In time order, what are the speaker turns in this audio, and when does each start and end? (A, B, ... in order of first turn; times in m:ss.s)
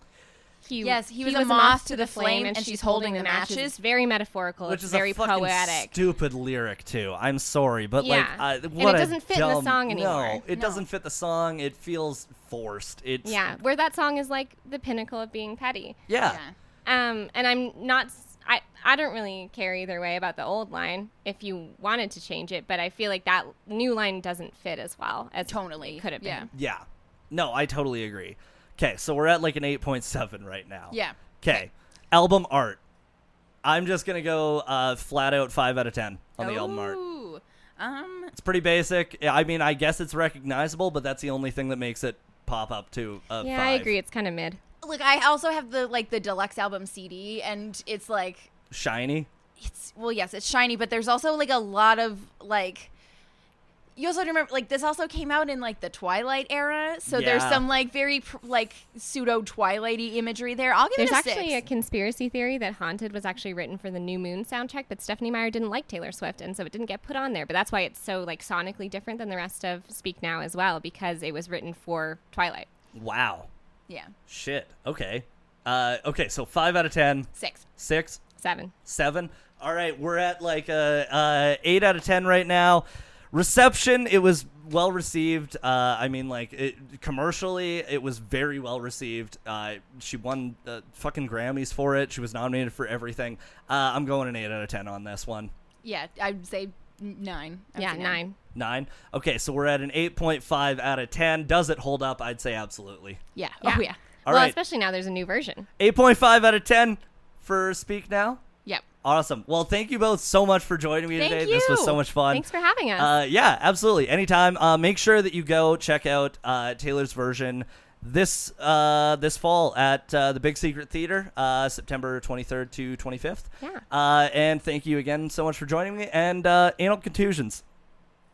0:00.6-0:05.9 A
0:00.8-0:03.8 B
0:04.6-0:13.4 C
0:08.0-0:10.4 A
0:10.5-0:10.8 B
0:13.2-0:16.1 A
0:16.1-0:16.4 C
0:16.2-0:16.5 B
0:16.8-0:26.5 A
0:25.4-0:26.5 B
0:26.5-0:32.8 C
0:30.9-0:31.2 B
0:33.6-0:37.0 C
0:36.4-0:38.3 B
0:38.3-0:43.9 C
0:43.4-0:44.6 A
0:44.8-0:48.5 B
0:48.7-0:49.3 C
0:49.6-0:52.9 B
0:54.0-1:01.6 B
0:57.1-0:57.6 C
1:01.0-1:12.7 A
1:12.9-1:13.5 C
1:13.9-1:14.1 B
1:14.3-1:18.2 C
1:17.3-1:17.6 B
1:18.4-1:18.7 A
1:18.8-1:35.5 C
1:35.8-1:38.2 B
1:37.8-1:38.4 A
1:38.5-1:43.2 C
1:43.4-1:44.0 B
1:43.6-1:45.7 A
1:44.2-1:44.6 C
1:45.8-1:48.4 C
1:49.0-1:52.4 C
1:51.1-1:52.0 B
1:52.3-1:53.1 A
1:53.0-2:07.6 C